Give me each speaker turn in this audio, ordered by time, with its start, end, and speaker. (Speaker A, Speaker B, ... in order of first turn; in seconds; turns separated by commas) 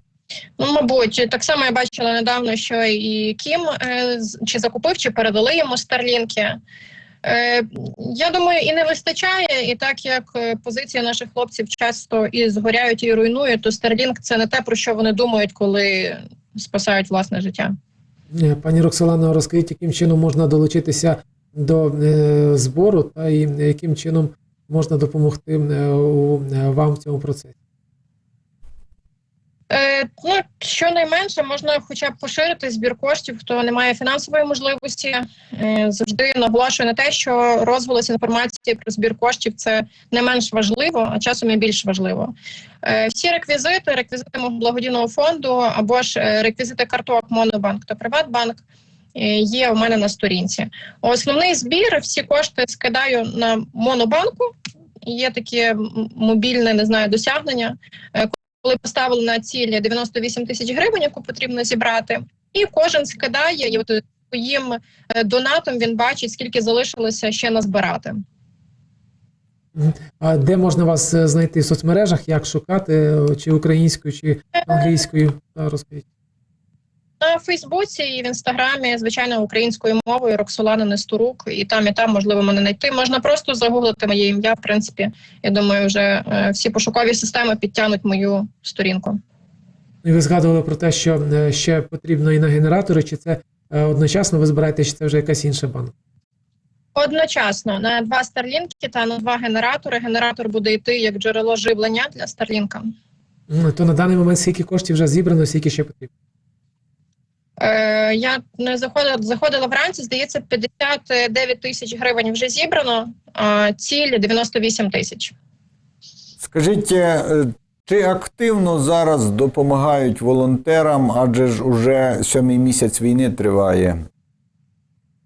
Speaker A: 0.6-6.6, Speaker A: 7.2-17.7, Speaker B: 18.4-27.5, Speaker A: 29.7-42.3, Speaker A: 42.8-48.6, Speaker A: 49.1-68.2, Speaker B: 69.8-76.0, Speaker A: 77.2-89.2, Speaker B: 90.0-95.9, Speaker A: 96.9-102.9, Speaker B: 103.5-106.1, Speaker A: 107.6-115.3, Speaker C: 116.4-124.0